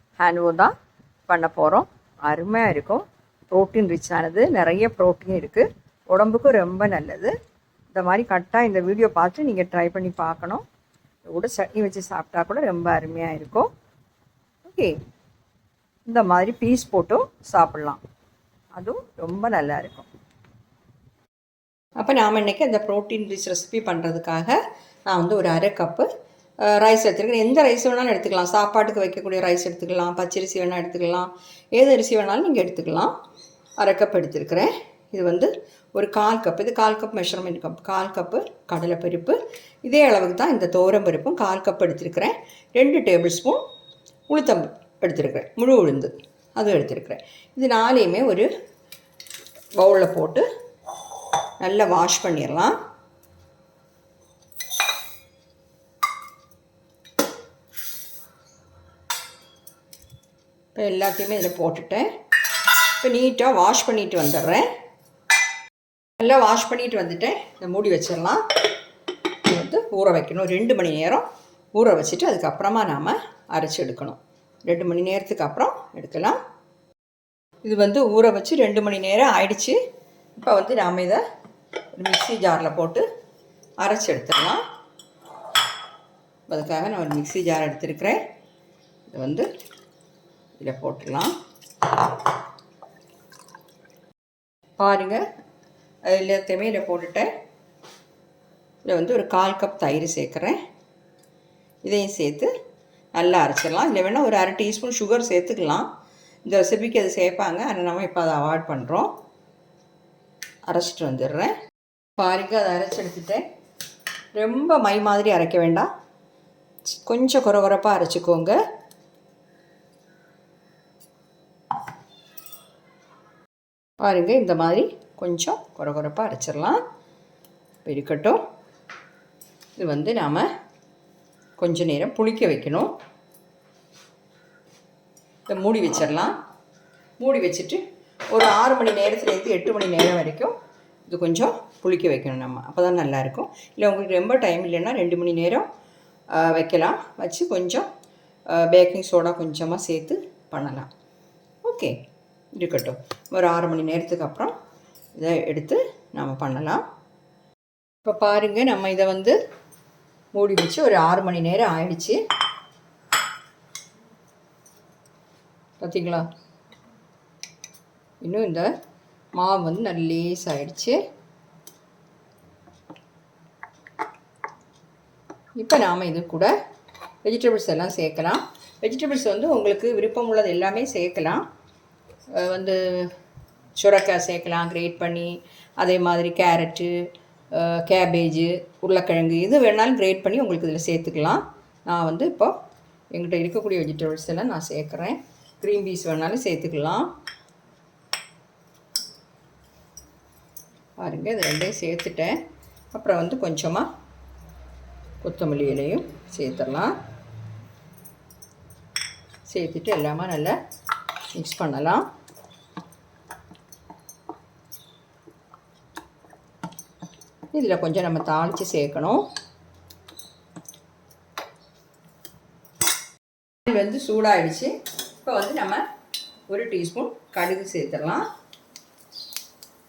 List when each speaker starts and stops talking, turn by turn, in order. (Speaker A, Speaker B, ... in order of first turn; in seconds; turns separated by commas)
Speaker A: 0.2-0.7, Speaker A: 1.3-7.3, Speaker A: 7.9-10.6, Speaker A: 11.3-13.7, Speaker A: 14.6-15.0, Speaker A: 16.1-18.0, Speaker A: 18.8-20.1, Speaker A: 22.0-26.1, Speaker A: 26.6-33.1, Speaker A: 33.8-43.6, Speaker A: 44.3-48.5, Speaker A: 49.8-50.5, Speaker A: 51.6-52.8, Speaker A: 60.8-62.1, Speaker A: 63.0-64.7, Speaker A: 66.2-68.4, Speaker A: 69.4-76.4, Speaker A: 77.6-79.8, Speaker A: 80.4-81.2, Speaker A: 81.9-83.0, Speaker A: 83.8-84.6, Speaker A: 86.5-88.2, Speaker A: 89.1-89.5, Speaker A: 90.6-91.3, Speaker A: 94.8-95.2, Speaker A: 96.1-97.3, Speaker A: 98.8-100.6, Speaker A: 101.8-102.5, Speaker A: 103.2-105.9, Speaker A: 106.5-109.1, Speaker A: 110.7-111.5, Speaker A: 112.2-113.4, Speaker A: 114.4-115.9, Speaker A: 116.9-118.6, Speaker A: 124.0-126.8, Speaker A: 127.8-128.4, Speaker A: 129.8-130.5, Speaker A: 131.6-132.9, Speaker A: 135.5-136.3, Speaker A: 137.2-140.5, Speaker A: 141.1-145.7, Speaker A: 146.3-147.9, Speaker A: 148.5-150.9, Speaker A: 151.6-152.0, Speaker A: 152.6-154.5, Speaker A: 155.2-156.8, Speaker A: 158.1-159.4, Speaker A: 160.3-162.2, Speaker A: 165.8-166.3, Speaker A: 168.2-168.7, Speaker A: 169.3-171.0, Speaker A: 175.6-176.5, Speaker A: 177.2-181.4, Speaker A: 182.3-183.1, Speaker A: 183.8-186.9, Speaker A: 187.5-192.6, Speaker A: 193.1-197.1, Speaker A: 201.0-202.4, Speaker A: 202.9-203.9, Speaker A: 205.2-206.9, Speaker A: 209.5-210.6, Speaker A: 211.3-212.1, Speaker A: 217.5-219.3, Speaker A: 223.7-225.8, Speaker A: 226.5-228.2